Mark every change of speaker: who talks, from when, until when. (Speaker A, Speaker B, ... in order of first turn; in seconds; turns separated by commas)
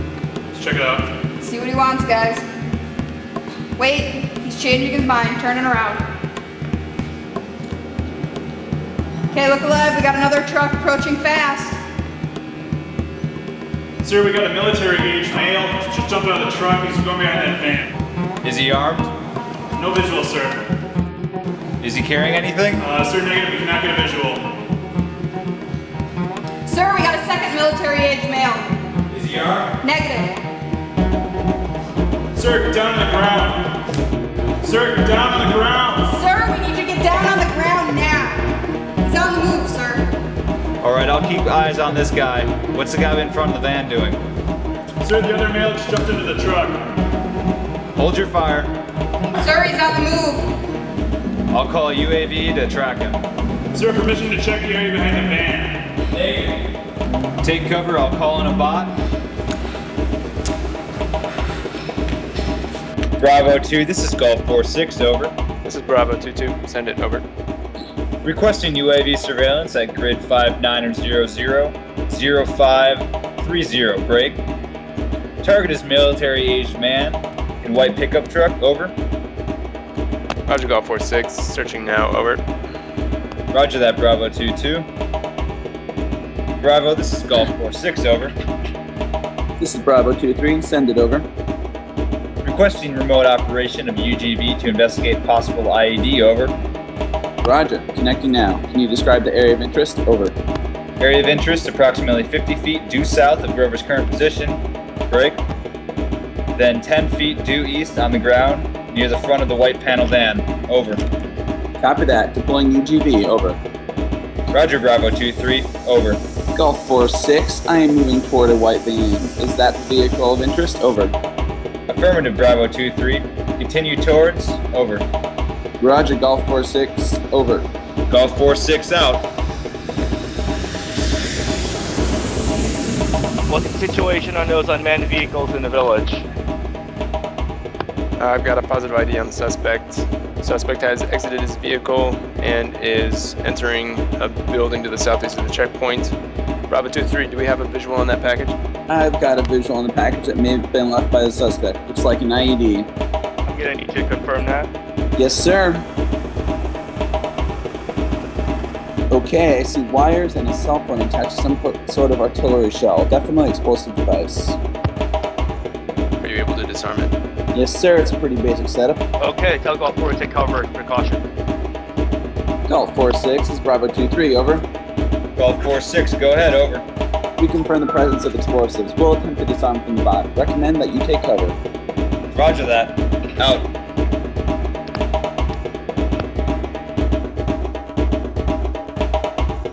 Speaker A: 0.6-1.0, Speaker B: 1.4-2.4, Speaker B: 3.8-6.0, Speaker B: 9.3-11.8, Speaker A: 14.0-17.9, Speaker C: 18.4-19.1, Speaker A: 19.8-20.6, Speaker C: 21.8-22.9, Speaker A: 22.8-24.4, Speaker B: 26.6-28.7, Speaker C: 29.1-29.8, Speaker B: 29.8-30.4, Speaker A: 32.3-33.7, Speaker A: 34.6-36.1, Speaker B: 36.1-40.0, Speaker C: 40.8-44.2, Speaker A: 45.0-46.9, Speaker C: 48.0-48.7, Speaker B: 49.4-50.5, Speaker C: 51.5-53.2, Speaker A: 53.7-55.8, Speaker C: 56.1-56.6, Speaker C: 57.4-59.0, Speaker C: 63.2-65.3, Speaker D: 65.6-67.2, Speaker C: 68.2-74.4, Speaker C: 75.4-78.9, Speaker D: 80.5-82.4, Speaker C: 83.5-84.9, Speaker C: 86.6-88.3, Speaker E: 89.6-91.3, Speaker C: 92.4-96.5, Speaker E: 97.4-100.4, Speaker C: 101.0-105.4, Speaker C: 106.5-111.0, Speaker E: 111.8-113.6, Speaker C: 114.5-116.2, Speaker E: 116.5-121.1, Speaker C: 121.9-125.0, Speaker E: 125.8-127.7, Speaker C: 128.1-129.3, Speaker F: 133.5-136.3, Speaker D: 138.2-146.2, Speaker D: 146.7-148.6, Speaker E: 148.9-152.9, Speaker F: 153.5-154.7, Speaker E: 155.2-155.8, Speaker E: 159.1-164.6, Speaker D: 166.2-167.1, Speaker E: 167.5-169.0, Speaker F: 169.2-171.2, Speaker E: 172.7-174.7, Speaker C: 175.4-176.8, Speaker E: 177.4-181.6, Speaker C: 182.3-183.7